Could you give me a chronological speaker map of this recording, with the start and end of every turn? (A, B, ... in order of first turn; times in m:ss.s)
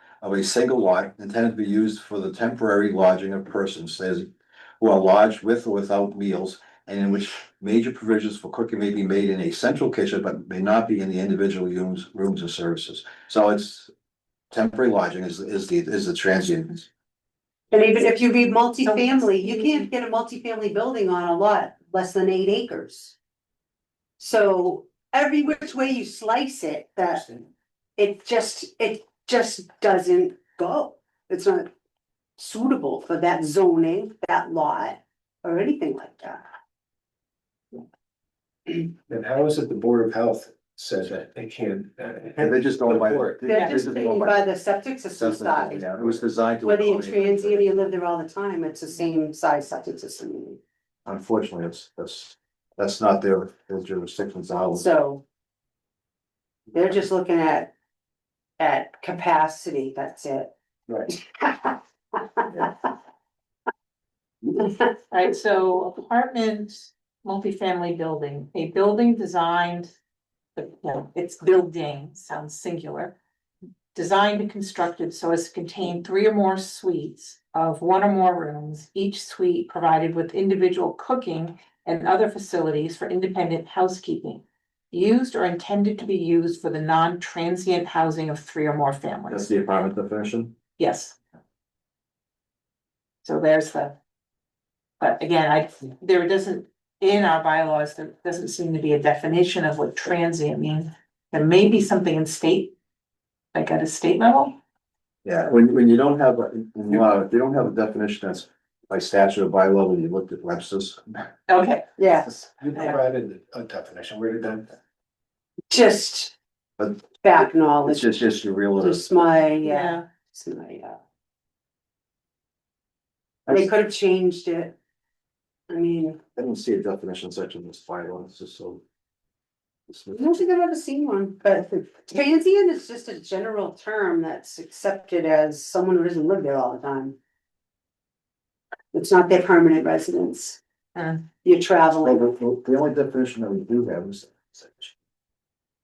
0:00.2-0:04.3 A
0:04.8-0:13.9 A
0:14.5-0:16.9 A
0:17.7-0:23.2 B
0:18.8-0:19.9 C
0:24.2-0:31.7 B
0:32.4-0:36.4 B
0:39.1-0:43.4 D
0:42.4-0:44.4 A
0:43.4-0:50.6 B
0:45.1-0:47.8 A
0:51.0-0:54.9 A
0:54.7-0:55.2 B
0:56.7-0:57.7 B
0:58.6-1:00.5 B
1:01.0-1:02.9 B
1:05.1-1:09.9 C
1:10.6-1:13.2 C
1:13.9-1:29.5 C
1:29.3-1:30.5 A
1:30.8-1:31.2 C
1:33.2-1:34.0 C
1:35.0-1:42.7 C
1:43.5-1:44.6 C
1:45.2-1:51.3 A
1:51.5-1:51.9 C
1:52.0-1:52.3 B
1:52.6-1:54.8 D
1:55.7-1:56.3 B
1:56.8-1:57.0 A
1:57.2-1:58.1 B
1:57.8-1:59.3 A
1:58.8-2:01.0 B
1:59.6-2:00.0 C
2:03.5-2:04.7 B
2:05.7-2:06.2 B
2:06.3-2:08.8 A
2:09.9-2:10.3 A
2:10.1-2:17.2 B
2:18.9-2:20.6 B
2:20.9-2:21.2 C
2:21.4-2:22.2 B
2:22.0-2:24.9 A